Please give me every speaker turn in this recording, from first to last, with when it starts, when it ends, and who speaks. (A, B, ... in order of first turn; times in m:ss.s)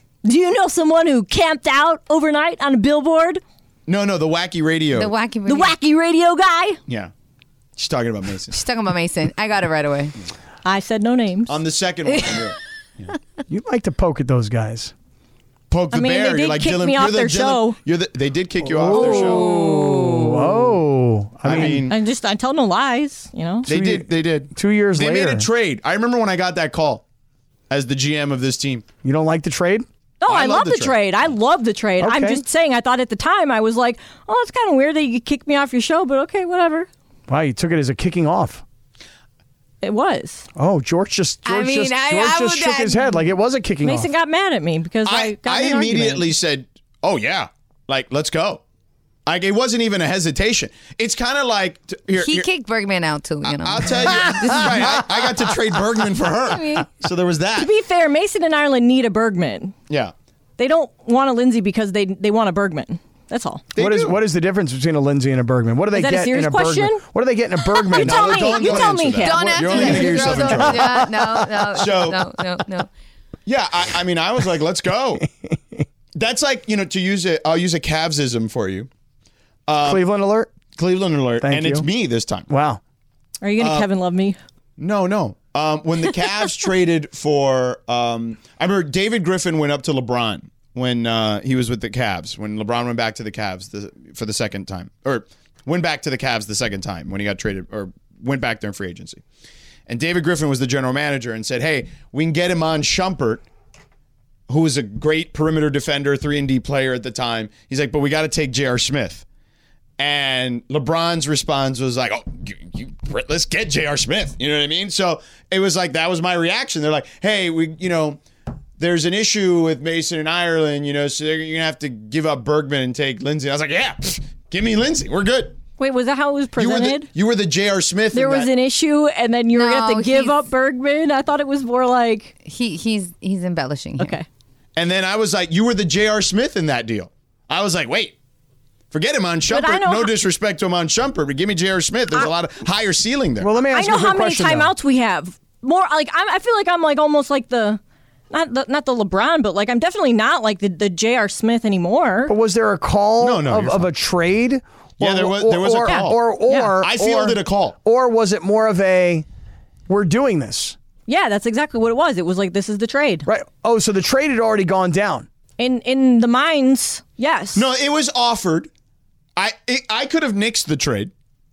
0:00.2-0:03.4 A
0:03.9-0:05.1 B
0:04.9-0:05.7 C
0:05.4-0:06.8 A
0:07.8-0:08.6 B
0:08.5-0:10.1 C
0:10.6-0:11.5 A
0:11.5-0:13.1 B
0:12.1-0:12.5 C
0:13.5-0:14.9 D
0:15.7-0:19.5 B
0:15.9-0:17.8 A
0:18.6-0:21.8 D
0:18.9-0:20.3 C
0:21.4-0:21.9 B
0:21.5-0:23.7 A
0:23.6-0:25.5 D
0:23.6-0:27.0 B
0:27.7-0:28.8 B
0:29.0-0:29.8 D
0:30.2-0:36.9 A
0:30.3-0:31.0 B
0:32.0-0:32.4 D
0:37.3-0:38.6 D
0:39.8-0:40.4 A
0:40.6-0:44.1 D
0:41.4-0:43.2 C
0:43.8-0:46.3 A
0:45.0-0:48.6 B
0:49.2-0:52.5 B
0:52.2-0:55.2 C
0:53.4-0:57.7 B
0:56.6-0:56.8 C
0:57.6-0:59.7 A
1:00.6-1:03.6 A
1:03.7-1:04.2 B
1:03.8-1:08.5 D
1:05.9-1:07.0 A
1:07.7-1:10.1 A
1:07.9-1:11.1 B
1:08.5-1:12.9 C
1:09.3-1:11.8 D
1:11.7-1:12.2 B
1:13.4-1:15.2 B
1:15.2-1:15.8 D
1:16.2-1:18.9 B
1:19.7-1:20.0 B
1:19.8-1:20.5 D
1:20.7-1:22.5 B
1:21.4-1:21.8 D
1:22.5-1:22.8 D
1:23.4-1:24.4 A
1:23.6-1:23.9 B
1:24.8-1:39.2 B
1:39.9-1:43.4 B
1:44.5-1:49.2 B
1:50.0-1:58.2 B
1:58.8-2:05.6 B
2:05.8-2:07.1 A
2:06.6-2:08.5 B
2:08.1-2:12.3 A
2:09.5-2:10.4 C
2:12.4-2:14.2 C
2:14.0-2:14.2 A
2:14.8-2:18.1 B
2:18.9-2:23.5 B
2:19.5-2:20.1 A
2:23.4-2:24.7 D
2:23.7-2:27.8 A
2:28.3-2:32.3 A
2:32.3-2:39.2 D
2:33.2-2:33.9 B
2:35.0-2:36.2 B
2:35.8-2:36.7 A
2:36.8-2:37.7 B
2:39.9-2:40.8 D
2:41.1-2:43.2 A
2:43.2-2:45.3 D
2:45.6-2:47.6 A
2:47.5-2:48.7 B
2:49.4-2:51.1 B